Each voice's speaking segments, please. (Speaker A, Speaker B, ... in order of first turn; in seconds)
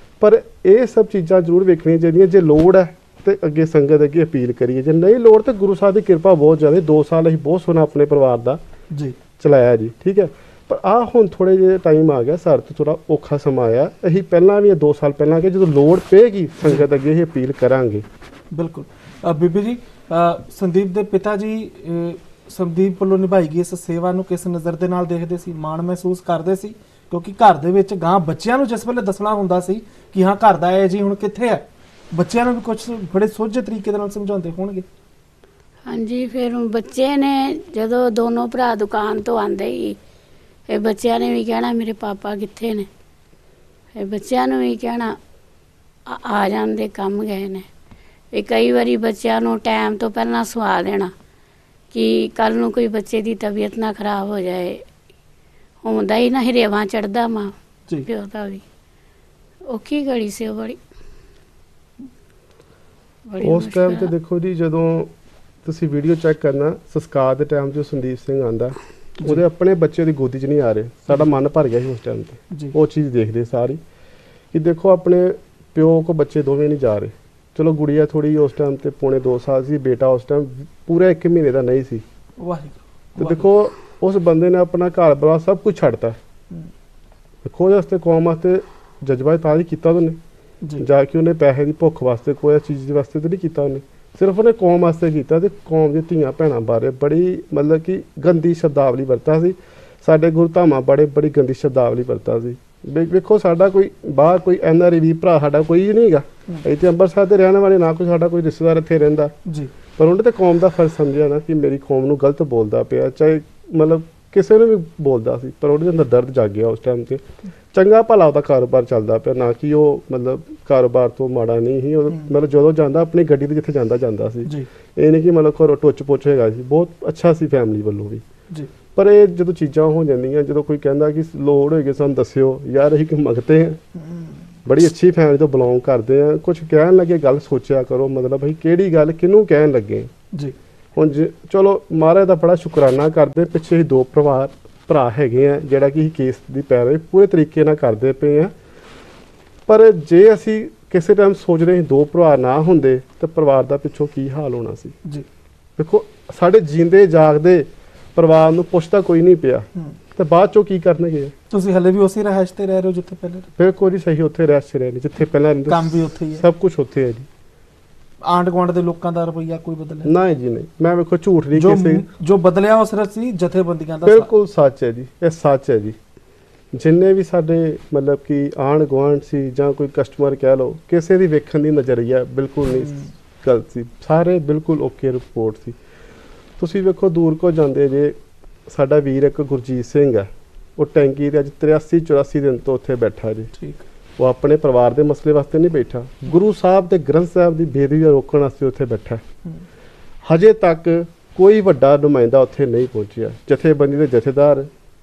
Speaker A: 0.2-8.6, 9.4-18.0, 63.4-65.1, 65.6-73.8, 74.5-82.0, 83.2-86.2, 87.4-90.2, 90.8-109.3, 110.0-128.2, 128.9-133.8, 134.7-140.1, 140.9-148.5, 149.7-154.9, 155.8-161.3, 163.6-167.3, 170.0-172.1, 174.0-176.0, 176.7-185.8, 186.6-193.5, 194.2-199.2, 200.2-204.7
Speaker B: 8.9-9.2, 18.5-34.8, 82.4-83.4, 109.5-109.7, 134.0-134.4, 161.5-163.5, 165.7-166.4, 168.2-170.1, 171.5-174.3, 182.8-183.1, 193.6-193.8
Speaker C: 35.9-40.0, 40.7-42.9, 43.9-45.2, 46.0-47.7, 48.3-51.1, 51.9-54.8, 55.8-57.5, 58.0-58.6, 59.7-60.8, 63.3-64.1